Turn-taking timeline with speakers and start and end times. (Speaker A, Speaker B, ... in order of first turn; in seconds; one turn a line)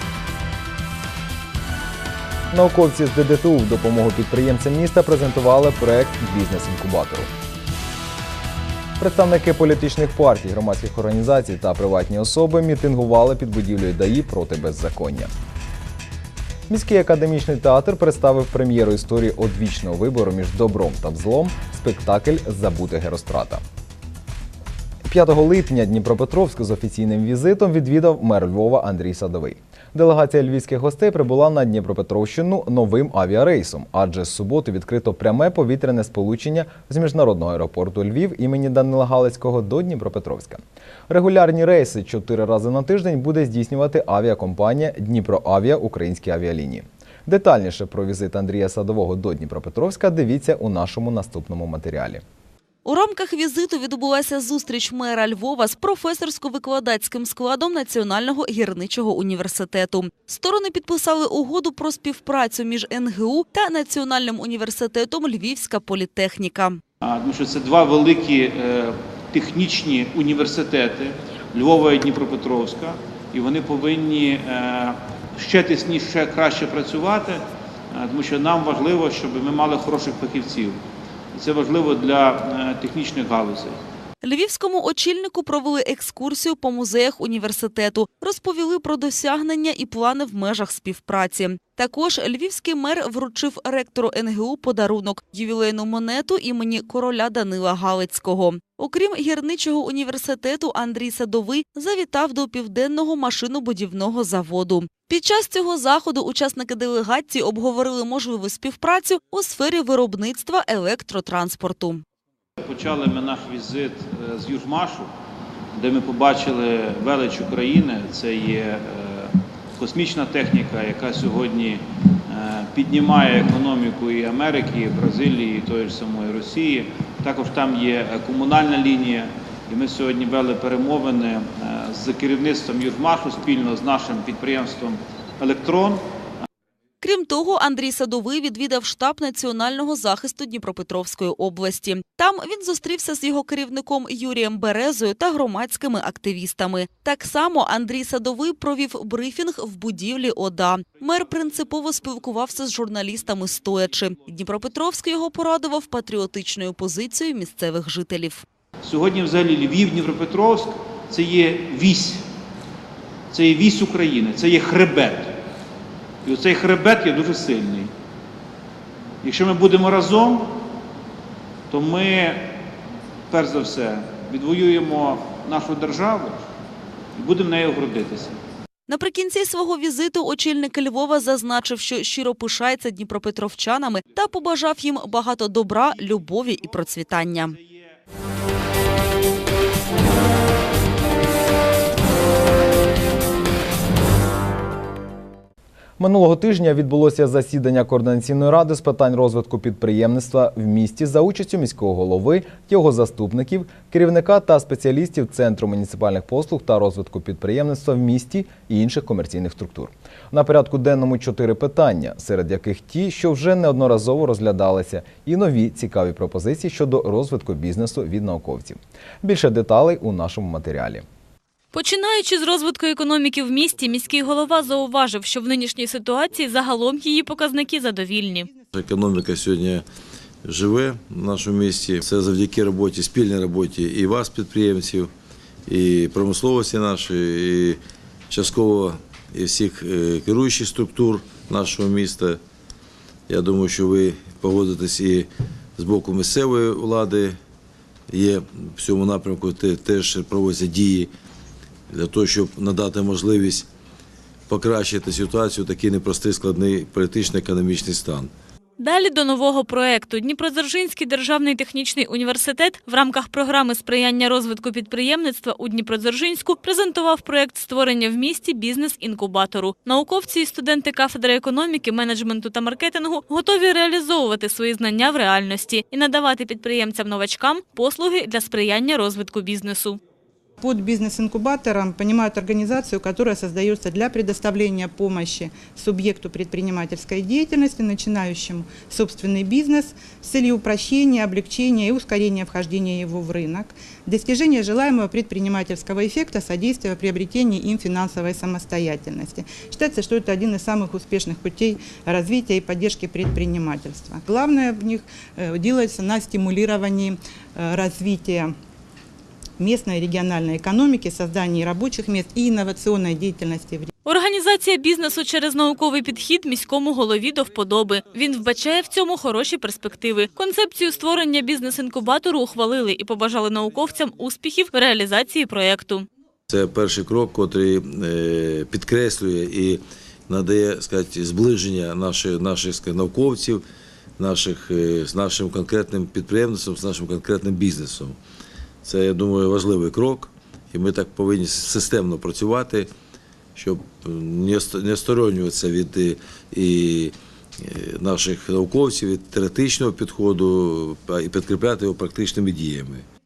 Speaker A: 2.5-7.3
Speaker A: 9.0-15.3
Speaker A: 16.7-23.6
Speaker A: 25.0-52.2
Speaker B: 52.8-66.8
Speaker C: 67.0-80.8
Speaker C: 81.3-83.8
Speaker B: 84.2-112.0
Speaker C: 112.6-115.1
Speaker C: 115.7-136.0
Speaker B: 137.0-158.4
Speaker C: 158.8-162.2
Speaker C: 163.3-165.4
Speaker C: 166.2-167.9
Speaker C: 169.2-170.6
Speaker C: 171.7-172.6
Speaker C: 173.3-176.4
Speaker C: 177.2-178.4
Speaker B: 178.9-187.6
Speaker A: 196.0-221.0
Speaker D: 221.7-228.5
Speaker E: 228.7-229.8
Speaker E: 230.4-235.1
Speaker E: 235.7-237.8
Speaker E: 238.3-242.4
Speaker E: 243.3-247.4
Speaker E: 248.1-251.1
Speaker E: 251.9-253.7
Speaker E: 254.5-258.3
Speaker D: 258.8-280.0
Speaker F: 280.6-308.5
Speaker F: 309.6-313.9
Speaker D: 314.0-326.1
Speaker E: 326.5-333.6
Speaker E: 334.2-338.2
Speaker E: 338.8-342.9
Speaker E: 343.6-353.0